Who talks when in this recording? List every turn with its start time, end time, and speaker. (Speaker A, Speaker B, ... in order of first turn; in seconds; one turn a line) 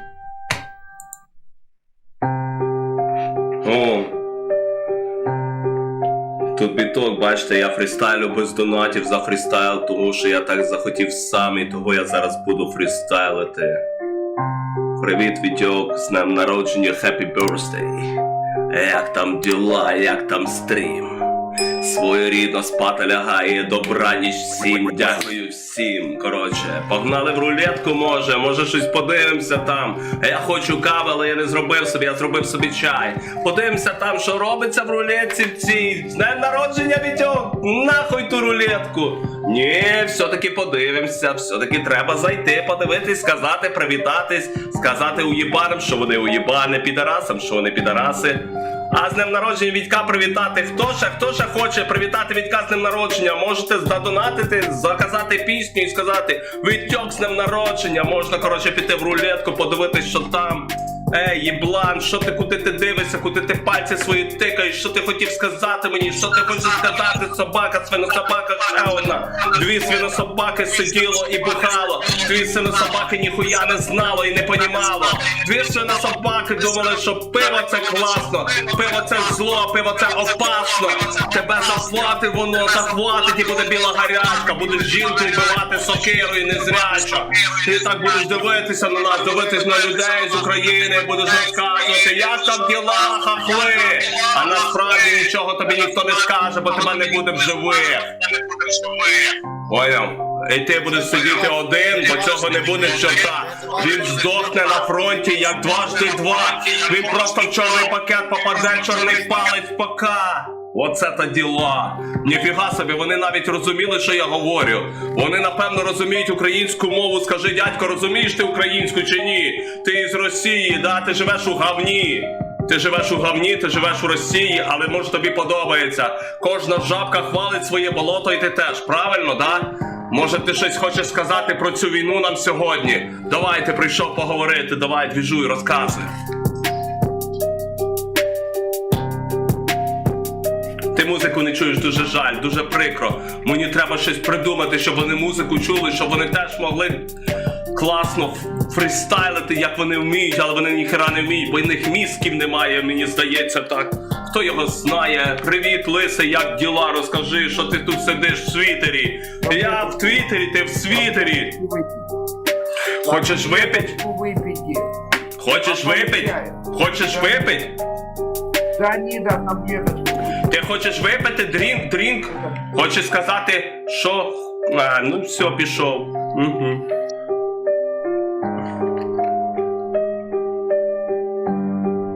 Speaker A: 3.6-4.1
Speaker A: 6.5-13.8
Speaker A: 15.0-18.2
Speaker A: 18.7-136.1
Speaker A: 140.9-147.1
Speaker A: 147.7-161.6
Speaker B: 159.4-160.3
Speaker B: 160.9-162.1
Speaker A: 163.0-164.0
Speaker B: 163.0-164.9
Speaker A: 165.4-167.8
Speaker B: 165.6-167.6
Speaker B: 168.8-170.3
Speaker A: 170.4-176.8
Speaker B: 172.3-172.8